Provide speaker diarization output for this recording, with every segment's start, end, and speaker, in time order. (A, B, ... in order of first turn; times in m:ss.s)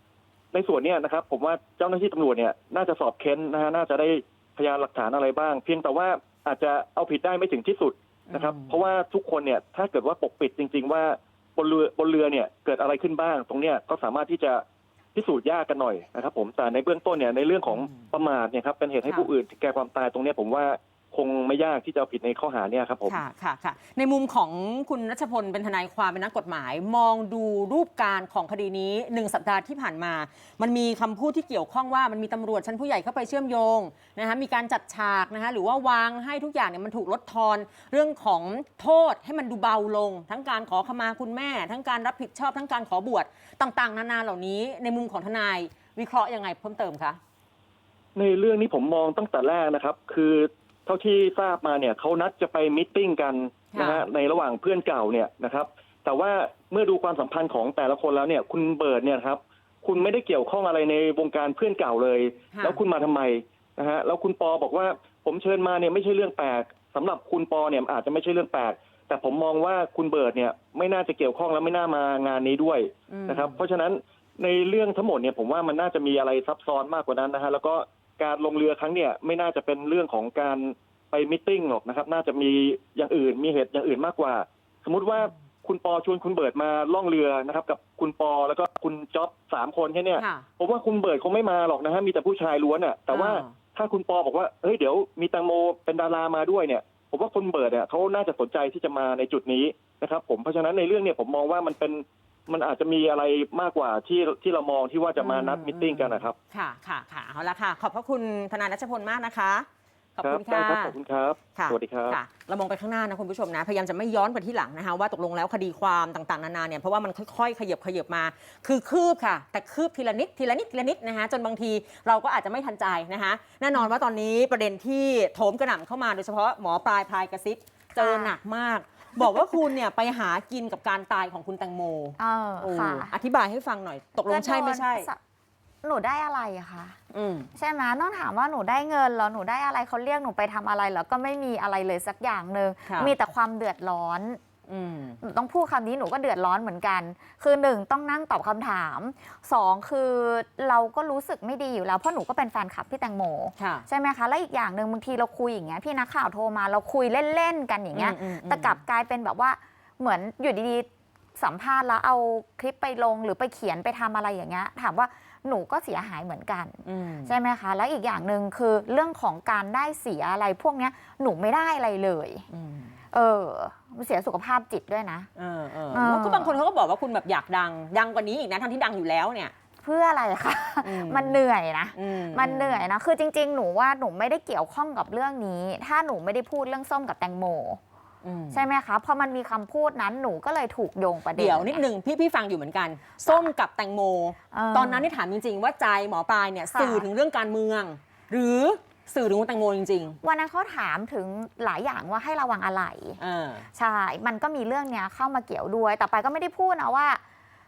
0:00.5-0:14.6 A
0:08.3-0:08.8 B
0:15.2-0:23.2 A
0:17.7-0:18.1 B
0:23.1-0:47.2 B
0:48.2-1:46.4 A
0:53.7-0:54.1 B
1:02.5-1:02.8 B
1:13.1-1:13.6 B
1:30.2-1:30.5 B
1:33.1-1:33.6 B
1:45.2-1:51.0 B
1:50.2-1:52.2 A
1:51.6-2:15.1 B
2:08.0-2:08.4 C
2:12.2-2:13.1 C
2:14.2-2:15.2 C
2:15.8-2:17.0 C
2:17.1-2:17.5 B
2:17.6-2:24.4 C
2:22.9-2:23.1 B
2:24.7-2:25.2 B
2:25.2-2:52.5 C
2:33.6-2:33.9 B
2:37.9-2:38.8 B
2:46.8-2:47.3 B
2:52.5-2:53.0 B
2:53.1-2:55.3 C
2:55.4-2:59.5 B
2:55.9-2:56.6 C
2:59.8-3:07.8 C
3:00.8-3:01.4 B
3:02.0-3:02.8 B
3:08.2-3:08.6 B
3:08.5-3:11.8 C
3:11.4-3:20.2 B
3:13.2-3:13.5 C
3:14.5-3:15.1 C
3:16.7-3:17.1 C
3:20.2-3:23.2 C
3:23.2-3:23.7 B
3:23.7-3:27.2 C